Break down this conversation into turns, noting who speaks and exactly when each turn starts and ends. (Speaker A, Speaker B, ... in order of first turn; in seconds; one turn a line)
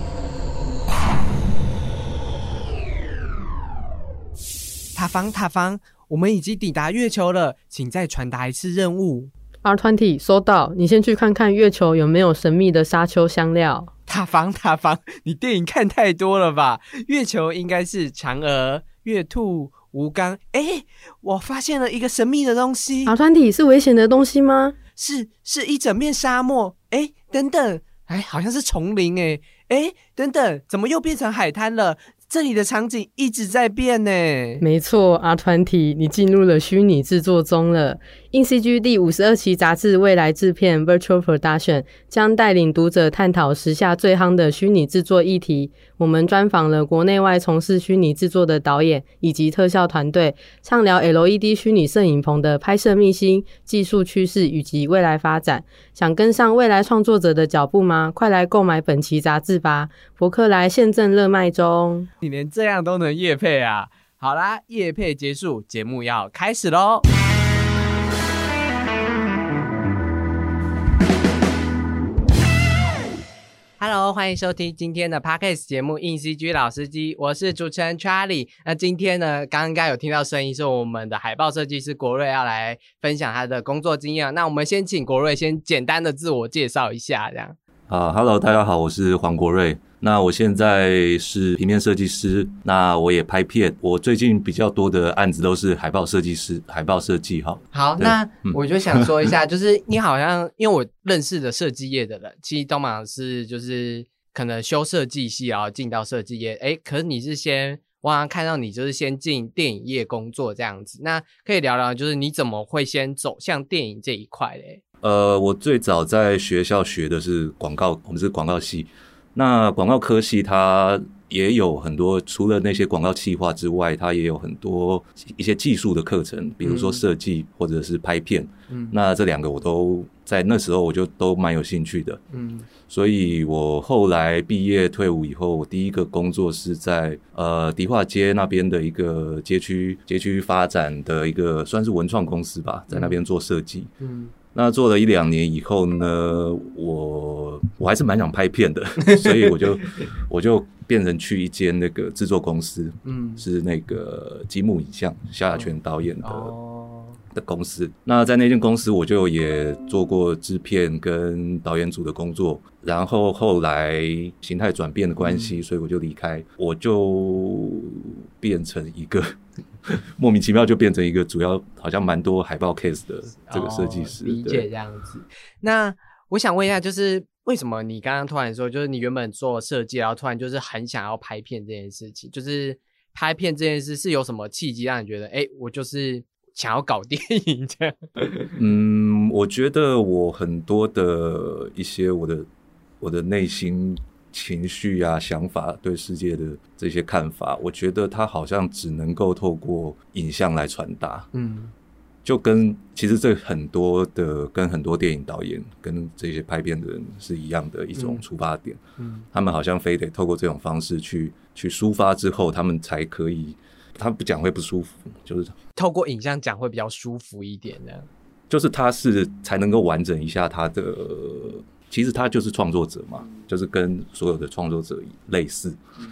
Speaker A: 5.0-9.3
Speaker B: 9.6-13.9
Speaker A: 14.1-23.1
Speaker B: 23.1-24.8
Speaker A: 25.0-34.6
Speaker B: 34.6-62.1
Speaker A: 62.2-67.1
Speaker A: 73.8-87.6
Speaker C: 87.9-99.1
Speaker A: 97.7-114.8
Speaker C: 115.0-132.2
Speaker A: 126.6-127.0
Speaker A: 128.7-128.9
Speaker A: 132.3-132.7
Speaker C: 132.9-143.9
Speaker A: 142.9-143.2
Speaker A: 144.0-144.3
Speaker C: 144.5-156.5
Speaker A: 149.3-149.5
Speaker A: 153.1-153.4
Speaker A: 155.5-157.2
Speaker C: 157.3-169.3
Speaker A: 165.2-165.6
Speaker C: 169.9-174.7
Speaker A: 173.5-188.5
Speaker C: 188.6-192.5
Speaker C: 193.0-201.3
Speaker A: 201.3-201.7
Speaker C: 202.2-208.8
Speaker A: 208.0-208.2
Speaker A: 209.0-209.3
Speaker C: 209.3-215.5
Speaker A: 215.8-218.1
Speaker C: 218.5-225.8